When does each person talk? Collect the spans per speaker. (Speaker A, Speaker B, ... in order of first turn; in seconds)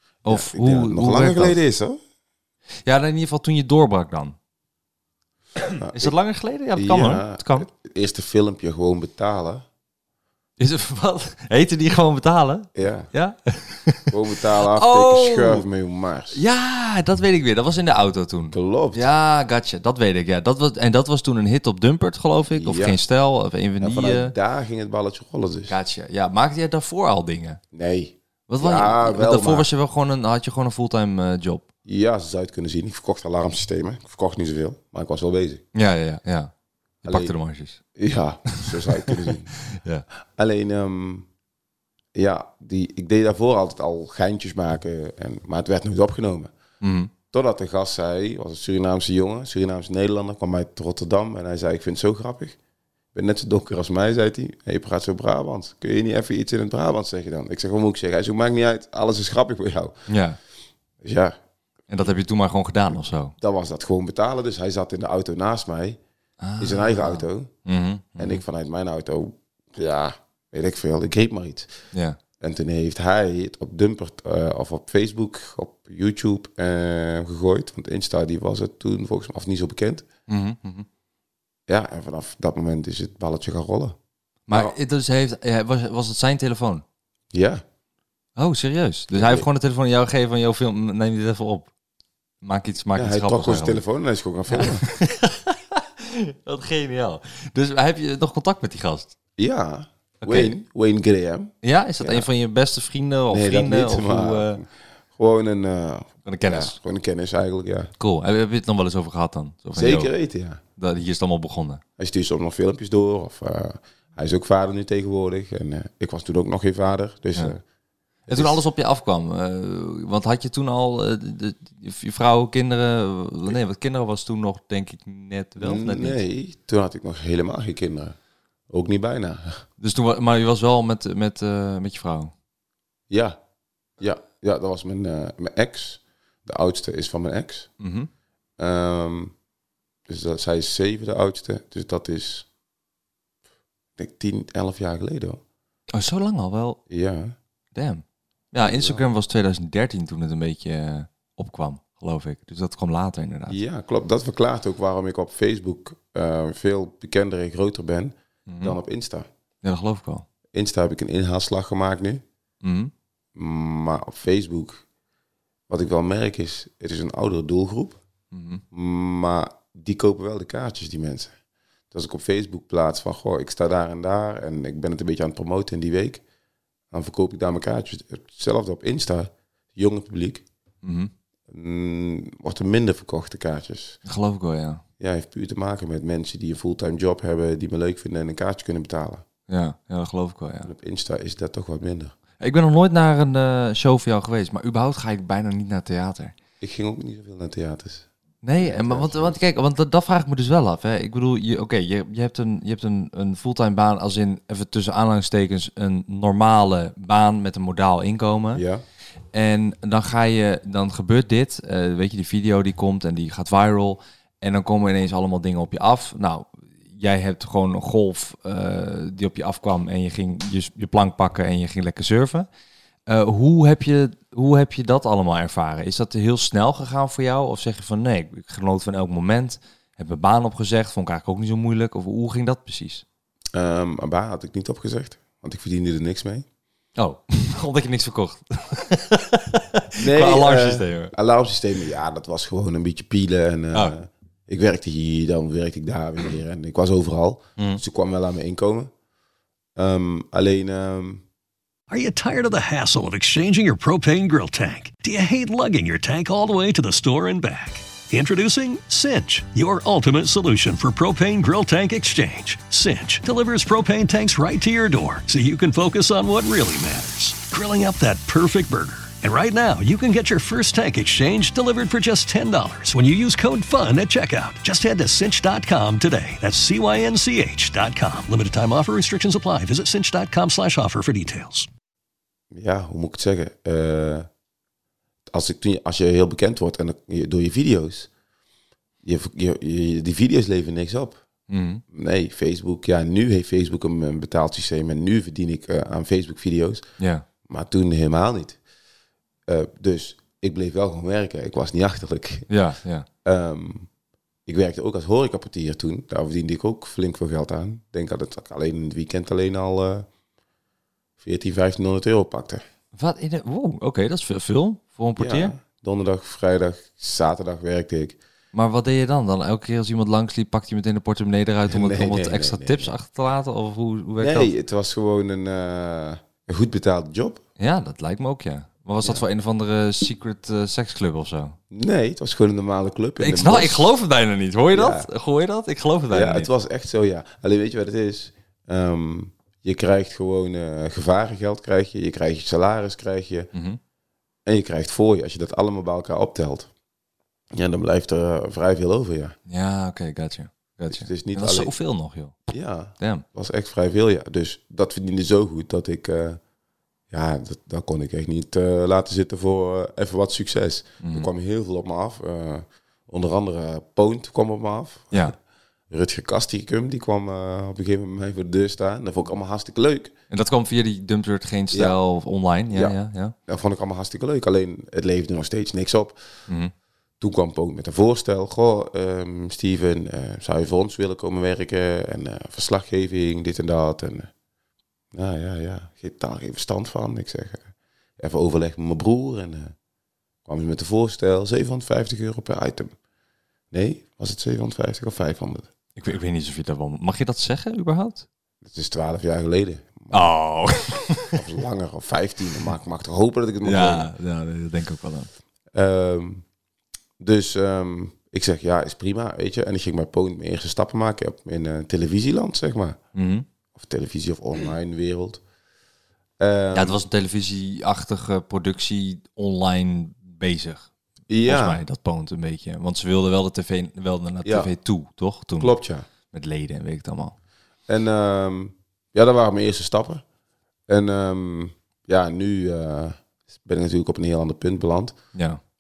Speaker A: 0.2-1.6, 2.9-4.4, 5.7-7.7, 10.6-14.1, 14.6-15.6, 16.3-24.3, 25.7-27.6, 28.5-31.6, 35.7-36.5, 37.0-37.8, 38.5-40.1, 46.8-47.1, 60.1-60.4, 61.9-63.4, 66.4-68.4, 71.9-72.2, 80.3-80.9, 84.5-86.8, 88.4-91.7, 92.4-93.8, 94.5-99.2, 100.2-100.5, 101.6-104.6, 106.2-106.8, 108.0-110.1, 110.8-111.8, 118.3-126.2, 129.8-132.3, 137.8-138.1, 145.9-146.8, 147.7-153.6, 158.5-158.8, 159.6-160.2, 162.6-162.9, 168.3-168.6, 180.8-181.1, 184.1-184.8, 189.5-190.7, 192.4-196.3, 198.4-208.6, 209.3-222.5, 223.1-233.0, 237.0-241.1, 291.5-291.8, 297.0-297.2, 302.5-303.1, 312.9-315.5, 318.5-324.5, 327.6-331.6, 333.2-336.5, 343.5-343.8, 349.5-353.2, 361.0-361.3, 370.3-373.4, 396.0-398.3, 400.1-401.4, 403.6-405.3, 413.1-413.5, 416.7-420.9, 421.4-427.4, 435.4-435.6
Speaker B: 0.2-2.0, 5.8-6.1, 6.8-9.7, 12.8-13.1, 14.1-16.4, 18.5-19.1, 22.6-23.0, 23.8-25.8, 27.7-29.7, 31.9-35.6, 37.0-37.3, 38.0-39.6, 40.3-41.3, 42.1-46.5, 47.3-52.6, 53.1-60.1, 61.0-61.4, 63.4-66.0, 66.6-67.5, 68.2-71.7, 72.4-80.1, 81.7-84.0, 84.5-84.8, 87.3-87.6, 89.1-89.5, 92.9-94.9, 99.4-102.3, 103.3-107.9, 109.7-110.6, 112.0-117.6, 118.3-118.6, 125.6-128.2, 128.7-129.6, 133.1-133.4, 134.0-137.7, 138.6-139.3, 140.1-142.5, 144.0-145.4, 146.9-147.3, 148.6-149.0, 153.5-159.3, 160.5-162.2, 163.3-164.8, 165.7-168.0, 168.7-171.3, 171.9-176.2, 176.9-180.4, 181.5-184.0, 185.0-189.2, 190.6-192.2, 196.6-198.1, 198.6-199.4, 208.5-208.8, 233.5-236.5, 240.0-248.9, 249.8-251.2, 282.5-284.3, 285.3-288.1, 289.0-291.2, 291.9-296.8, 297.4-298.6, 299.5-302.5, 303.2-303.9, 304.5-310.1, 311.2-312.6, 315.2-318.2, 321.7-322.9, 324.2-327.4, 331.7-333.9, 334.7-335.1, 336.1-343.5, 344.5-346.7, 347.5-349.4, 350.9-351.7, 352.5-356.4, 357.1-365.3, 365.9-370.1, 373.5-376.2, 377.2-384.3, 385.1-389.7, 390.5-392.9, 393.7-395.7, 398.6-400.3, 401.4-404.1, 405.7-406.4, 407.2-413.0, 413.8-415.4, 416.4-417.0, 421.3-421.8, 424.4-424.7, 425.6-426.1, 427.9-430.2, 430.9-435.2
Speaker C: 251.9-281.7